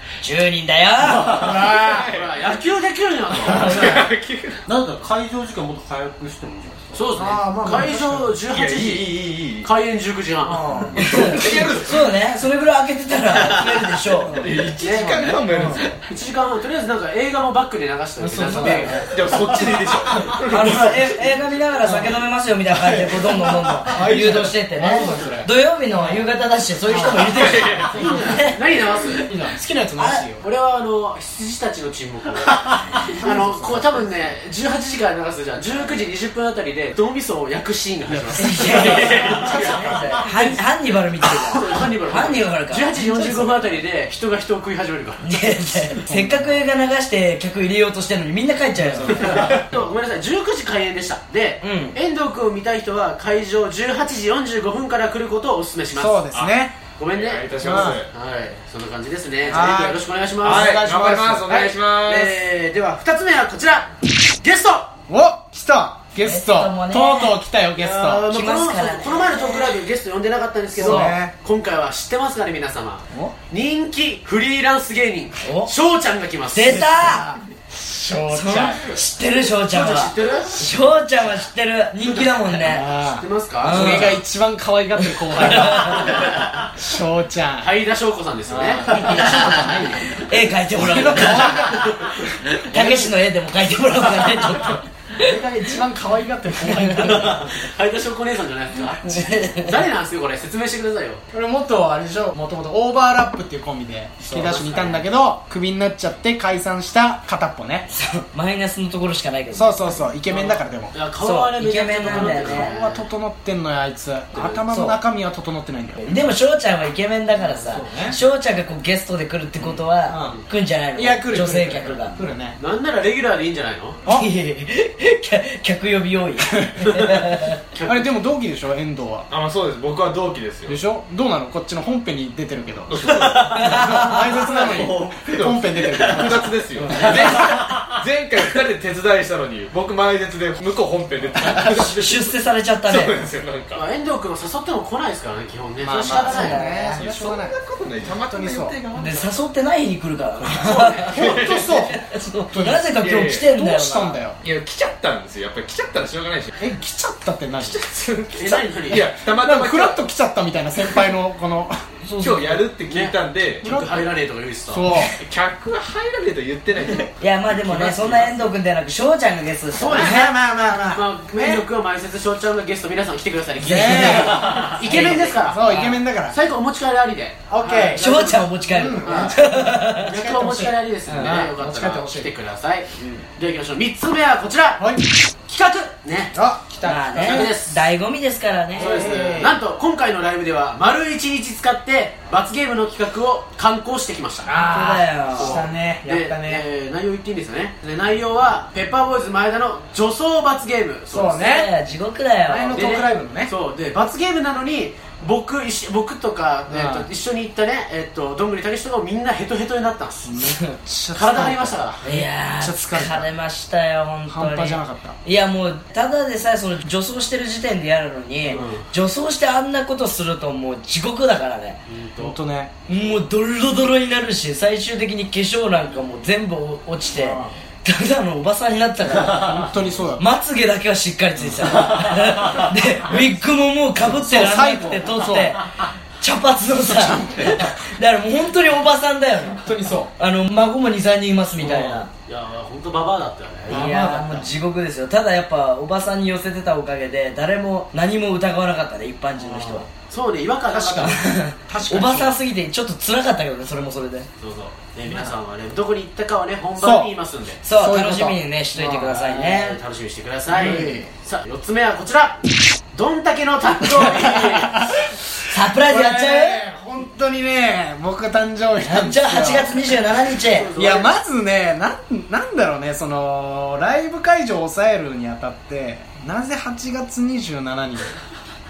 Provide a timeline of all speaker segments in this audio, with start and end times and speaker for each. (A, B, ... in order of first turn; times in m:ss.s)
0:00.2-0:01.4 A
0:01.2-0:02.1 B
0:01.3-0:04.0 C
0:01.4-0:02.5 D
0:03.4-0:04.6 D
0:03.5-0:03.9 B
0:03.5-0:04.0 A
0:04.7-0:07.2 E
0:06.9-0:10.7 C
0:07.1-0:08.4 B
0:08.5-0:09.7 D
0:10.4-0:11.5 B
0:11.0-0:14.4 A
0:11.0-0:12.1 D
0:14.2-0:15.9 B
0:14.3-0:16.0 D
0:14.8-0:15.4 C
0:16.1-0:19.1 C
0:18.2-0:19.6 B
0:18.6-0:19.0 A
0:19.1-0:21.0 D
0:20.1-0:20.4 B
0:20.5-0:28.6 A
0:21.8-0:22.1 B
0:22.7-0:26.2 B
0:26.8-0:28.3 B
0:27.3-0:28.2 D
0:27.8-0:29.3 C
0:29.2-0:30.4 B
0:30.0-0:30.2 A
0:30.4-0:39.7 C
0:33.1-0:34.0 B
0:38.1-0:40.4 B
0:38.4-0:42.9 A
0:39.0-0:39.8 D
0:40.3-0:40.5 C
0:41.2-0:45.3 C
0:42.9-0:43.7 B
0:45.2-0:49.5 A
0:46.0-0:46.5 B
0:48.8-0:49.5 B
0:49.1-0:49.7 D
0:49.1-0:56.2 C
0:51.6-0:52.0 A
0:56.0-0:56.8 B
0:57.0-1:00.8 C
0:57.1-0:58.1 D
0:57.6-0:58.0 B
0:59.5-1:01.5 B
1:00.4-1:02.4 D
1:01.5-1:04.9 C
1:05.1-1:08.3 B
1:06.2-1:07.4 A
1:07.8-1:17.0 C
1:08.3-1:09.7 A
1:10.7-1:11.3 B
1:10.8-1:11.2 A
1:15.4-1:15.7 A
1:16.5-1:17.4 A
1:17.0-1:18.9 B
1:18.3-1:22.9 A
1:19.6-1:20.7 C
1:22.6-1:27.7 B
1:23.1-1:24.2 C
1:23.6-1:24.2 A
1:25.2-1:26.1 A
1:27.6-1:29.9 C
1:28.5-1:30.0 B
1:28.9-1:31.8 A
1:30.7-1:33.2 B
1:31.6-1:32.1 C
1:32.5-1:35.4 A
1:35.2-1:37.5 B
1:36.8-1:37.1 A
1:37.0-1:41.2 C
1:39.0-1:39.8 A
1:41.3-1:47.9 B
1:44.2-1:45.0 C
1:47.9-1:50.0 A
1:49.5-1:50.9 B
1:50.3-1:53.0 C
1:51.2-1:52.7 A
1:52.0-1:56.2 B
1:54.3-1:54.6 C
1:54.7-1:55.0 A
1:56.0-2:02.2 A
1:57.6-1:58.2 B
2:00.1-2:00.4 B
2:00.9-2:02.6 B
2:02.6-2:04.0 C
2:04.1-2:07.6 A
2:06.4-2:06.9 B
2:06.8-2:07.2 C
2:07.7-2:08.1 C
2:07.8-2:09.3 B
2:09.3-2:10.8 D
2:10.7-2:17.4 B
2:12.9-2:22.3 D
2:13.5-2:14.4 A
2:14.5-2:15.3 E
2:15.9-2:16.3 E
2:17.3-2:18.0 E
2:21.4-2:21.8 B
2:21.4-2:23.2 A
2:22.9-2:23.8 D
2:23.7-2:26.7 C
2:25.8-2:27.6 B
2:26.1-2:27.0 A
2:26.9-2:29.3 D
2:28.2-2:28.8 B
2:29.0-2:34.2 A
2:30.5-2:31.4 C
2:31.1-2:31.9 D
2:31.1-2:32.0 B
2:32.5-2:34.4 B
2:33.0-2:33.5 D
2:34.4-2:36.6 D
2:36.6-2:37.8 B
2:37.6-2:40.0 D
2:38.3-2:39.1 C
2:39.2-2:41.8 B
2:42.0-2:42.7 A
2:42.2-2:43.6 D
2:42.9-2:44.8 C
2:43.6-2:44.0 B
2:44.7-2:45.2 B
2:45.0-2:47.1 D
2:47.2-2:50.3 A
2:47.7-2:48.2 C
2:47.8-2:48.4 D
2:49.7-2:50.3 C
2:49.9-2:51.6 B
2:50.9-3:04.8 C
2:53.6-2:56.4 B
2:53.8-2:56.0 A
2:57.5-2:58.1 B
2:58.0-3:00.1 A
2:58.7-3:02.3 B
3:01.1-3:01.3 A
3:04.8-3:05.1 B
3:05.5-3:06.4 C
3:06.3-3:07.5 B
3:06.8-3:09.0 A
3:07.2-3:07.8 C
3:08.7-3:14.5 C
3:08.8-3:09.6 B
3:14.4-3:16.6 B
3:14.5-3:15.6 A
3:15.4-3:21.4 C
3:21.1-3:21.7 B
3:21.4-3:23.0 A
3:22.4-3:23.5 B
3:22.7-3:30.3 C
3:26.7-3:27.1 B
3:30.2-3:33.3 B
3:31.1-3:32.0 C
3:32.0-3:41.8 A
3:34.3-3:35.2 B
3:38.5-3:38.8 C
3:41.9-3:42.4 C
3:42.2-3:42.7 B
3:42.9-3:55.6 A
3:47.2-3:47.5 B
3:49.2-3:50.2 B
3:51.4-3:52.0 B
3:54.1-3:55.6 B
3:56.2-3:59.6 A
3:56.8-3:57.7 B
3:59.4-4:00.1 B
4:00.2-4:02.1 A
4:01.6-4:03.9 C
4:01.7-4:02.0 B
4:03.7-4:04.5 B
4:03.7-4:09.9 A
4:09.4-4:09.8 B
4:10.1-4:11.2 C
4:10.7-4:12.4 B
4:11.0-4:14.3 A
4:14.4-4:17.6 C
4:15.1-4:15.3 B
4:16.8-4:17.1 B
4:17.6-4:19.8 A
4:17.7-4:19.4 B
4:19.3-4:22.4 C
4:20.5-4:21.1 B
4:20.6-4:21.0 A
4:22.9-4:24.9 C
4:23.9-4:25.2 B
4:25.5-4:26.6 A
4:25.8-4:30.0 B
4:28.8-4:30.7 A
4:30.4-4:31.1 C
4:30.7-4:38.1 B